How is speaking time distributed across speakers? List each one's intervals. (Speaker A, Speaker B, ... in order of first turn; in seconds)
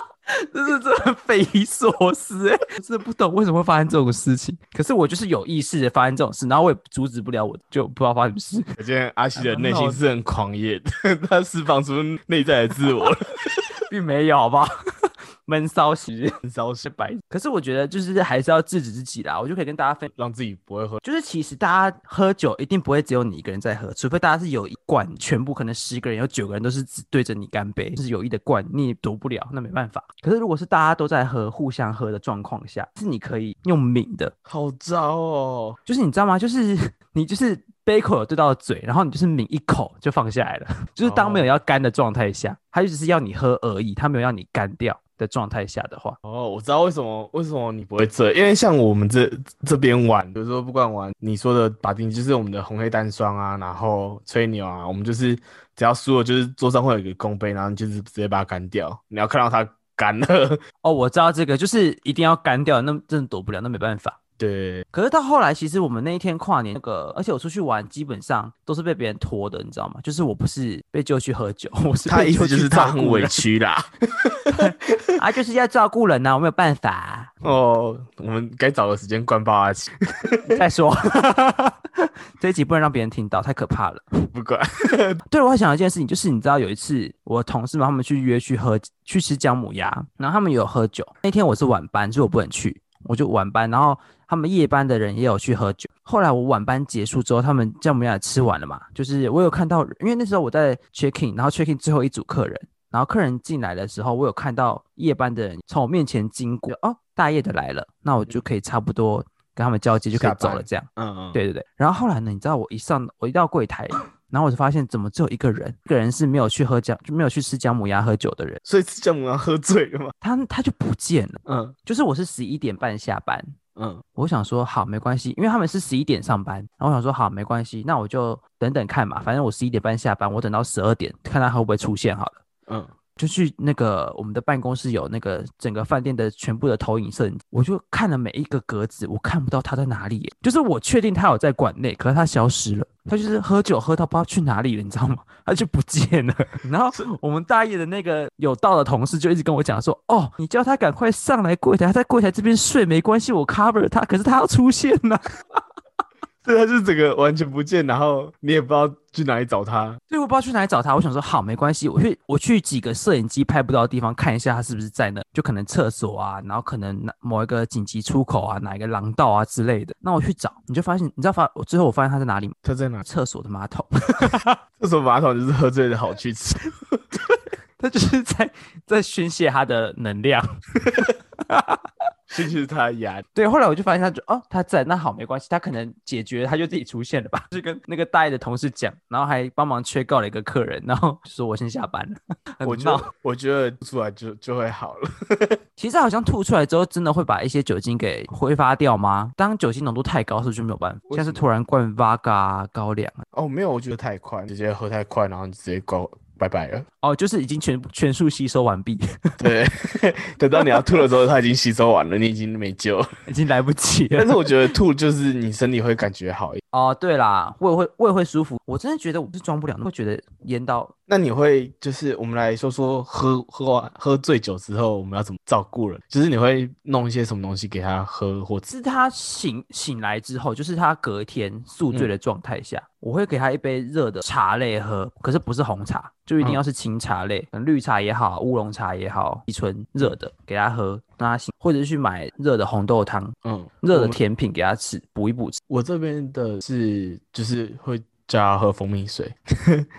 Speaker A: 0.3-8.7, 9.4-10.0, 13.9-20.1, 21.0-34.3, 35.9-46.2, 60.8-64.2, 64.9-73.5, 74.5-77.3, 80.5-84.1, 85.3-118.6, 120.2-123.5, 124.2-132.4, 133.2-155.2, 160.1-174.6, 177.8-180.6, 181.4-181.9, 183.3-193.1, 195.8-203.2, 207.0-209.4, 213.3-214.5, 216.7-220.9, 228.7-245.6
Speaker B: 8.8-13.7, 16.4-16.9, 20.1-21.0, 34.5-35.8, 41.0-41.5, 46.2-60.6, 64.4-64.8, 72.1-75.1, 77.4-80.6, 84.3-85.2, 110.1-111.4, 118.6-120.1, 121.5-121.8, 123.8-124.0, 156.4-160.0, 172.6-173.0, 174.8-177.0, 182.3-183.2, 192.6-195.6, 201.1-201.4, 203.3-206.9, 209.4-213.1, 214.2-216.6, 221.1-228.7, 243.4-244.2, 245.7-249.9